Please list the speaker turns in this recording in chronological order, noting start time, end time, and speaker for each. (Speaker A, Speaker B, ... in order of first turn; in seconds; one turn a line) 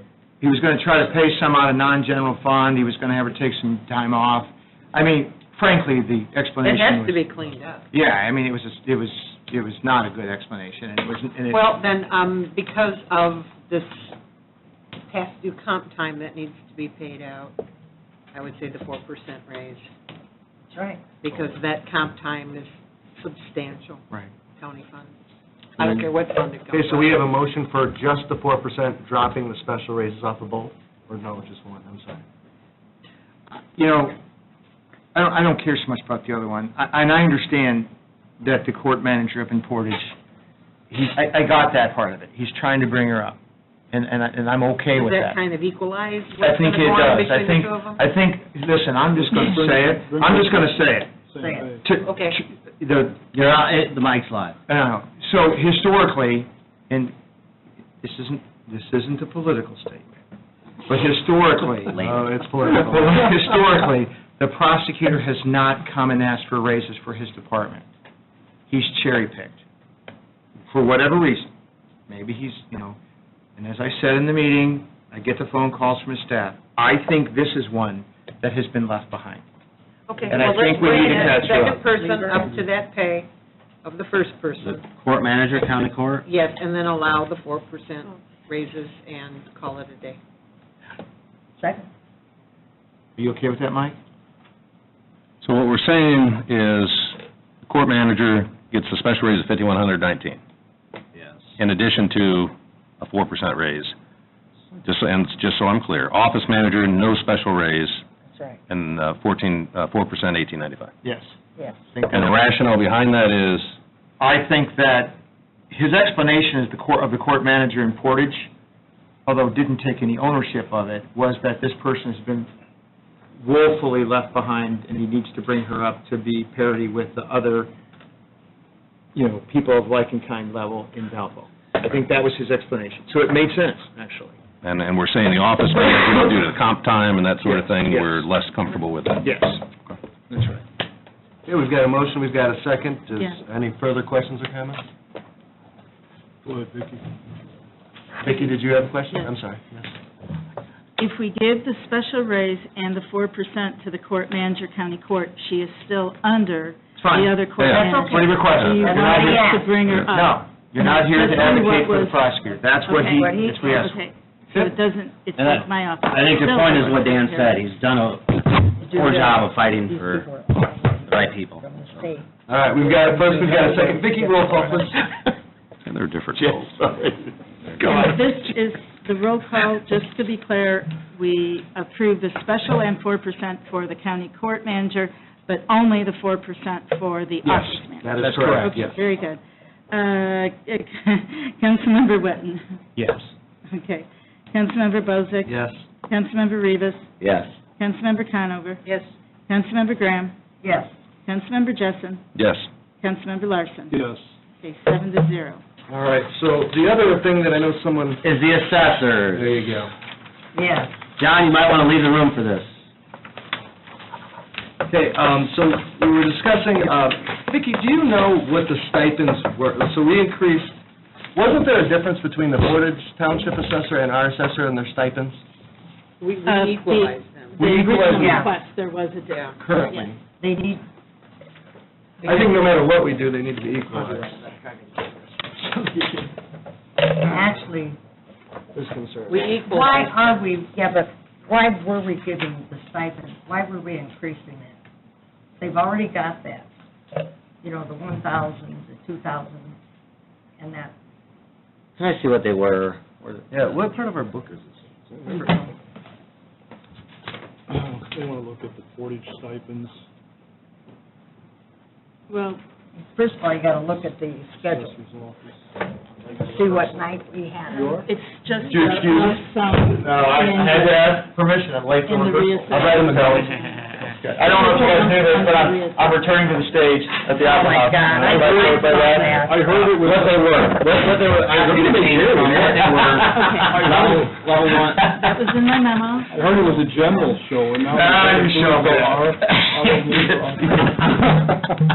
Speaker A: 0.4-7.2
Speaker B: 6.6-7.8
Speaker A: 7.9-11.7
Speaker B: 11.5-14.1
Speaker B: 15.1-17.6
Speaker B: 18.3-19.9
Speaker C: 20.7-21.0
Speaker B: 21.2-24.1
Speaker B: 24.6-25.1
Speaker B: 25.8-27.3
Speaker D: 25.8-26.1
Speaker D: 26.7-32.2
Speaker A: 33.6-34.2
Speaker A: 35.1-40.1
Speaker A: 40.9-43.4
Speaker A: 43.9-45.4
Speaker B: 44.9-48.0
Speaker A: 46.4-51.1
Speaker E: 49.2-51.8
Speaker C: 51.4-51.7
Speaker A: 51.8-53.8
Speaker B: 52.0-52.4
Speaker F: 53.4-54.5
Speaker A: 54.7-57.1
Speaker A: 58.0-60.2
Speaker A: 60.9-62.1
Speaker F: 61.9-62.8
Speaker D: 62.0-63.2
Speaker A: 62.7-67.9
Speaker A: 68.7-69.6
Speaker A: 70.7-71.5
Speaker A: 72.1-73.0
Speaker A: 73.6-79.4
Speaker B: 80.1-83.3
Speaker A: 80.2-81.8
Speaker C: 80.7-82.6
Speaker B: 83.8-84.9
Speaker F: 84.6-86.2
Speaker B: 86.2-90.2
Speaker C: 91.6-91.9
Speaker A: 93.2-94.0
Speaker G: 95.4-100.4
Speaker G: 101.6-104.0
Speaker G: 104.8-108.0
Speaker C: 108.3-108.6
Speaker G: 108.7-110.9
Speaker A: 111.0-111.4
Speaker A: 111.9-112.4
Speaker G: 112.1-113.8
Speaker A: 114.2-115.2
Speaker A: 115.7-118.5
Speaker A: 119.2-122.5
Speaker A: 123.4-127.7
Speaker A: 129.1-134.4
Speaker G: 134.6-139.9
Speaker A: 137.4-138.2
Speaker A: 139.2-139.6
Speaker D: 140.3-140.6
Speaker D: 141.4-144.8
Speaker E: 146.4-147.0
Speaker D: 148.2-149.9
Speaker H: 148.2-148.5
Speaker H: 151.0-167.7
Speaker A: 157.0-159.4
Speaker C: 157.7-159.8
Speaker A: 160.1-164.0
Speaker C: 163.0-163.7
Speaker F: 165.3-170.3
Speaker C: 168.8-172.3
Speaker F: 171.1-172.0
Speaker D: 172.5-175.0
Speaker C: 172.8-174.7
Speaker G: 175.8-176.8
Speaker A: 176.8-177.1
Speaker H: 177.8-192.8
Speaker D: 187.4-189.0
Speaker F: 188.2-188.6
Speaker H: 193.7-197.1
Speaker D: 195.5-195.8
Speaker F: 197.2-197.5
Speaker H: 197.8-198.8
Speaker H: 199.5-200.3
Speaker C: 200.6-200.9
Speaker H: 201.2-202.2
Speaker G: 202.3-202.7
Speaker H: 203.0-204.0
Speaker E: 203.9-204.2
Speaker H: 204.6-205.6
Speaker D: 205.9-208.2
Speaker F: 208.2-209.5
Speaker D: 209.3-209.9
Speaker C: 210.5-210.9
Speaker F: 211.2-212.7
Speaker D: 214.8-220.8
Speaker D: 221.3-225.4
Speaker B: 226.2-227.7
Speaker H: 226.4-230.1
Speaker D: 227.6-228.3
Speaker C: 228.1-228.5
Speaker B: 229.2-229.6
Speaker D: 229.6-230.2
Speaker C: 230.4-230.8
Speaker B: 232.2-232.6
Speaker D: 232.2-234.5
Speaker D: 235.6-236.3
Speaker C: 237.1-238.0
Speaker D: 238.7-239.6
Speaker B: 239.3-240.4
Speaker C: 239.6-244.7
Speaker C: 245.6-246.7
Speaker C: 247.6-249.8
Speaker C: 250.6-250.9
Speaker F: 252.0-253.8
Speaker D: 253.5-255.7
Speaker E: 257.7-260.1
Speaker H: 262.3-262.6
Speaker C: 263.1-265.0
Speaker E: 264.7-265.1
Speaker E: 266.3-267.1
Speaker C: 266.3-268.1
Speaker E: 267.7-268.1
Speaker H: 268.0-271.2
Speaker D: 268.7-269.4
Speaker A: 270.0-273.5
Speaker H: 272.1-276.2
Speaker D: 272.8-273.5
Speaker A: 274.0-283.4
Speaker C: 277.4-279.7
Speaker E: 278.1-278.6
Speaker E: 279.3-281.0
Speaker F: 281.0-285.1
Speaker E: 282.5-282.9
Speaker G: 282.9-283.2
Speaker H: 283.3-283.9
Speaker E: 283.6-284.5
Speaker H: 285.1-286.3
Speaker E: 286.3-291.5
Speaker A: 287.9-291.3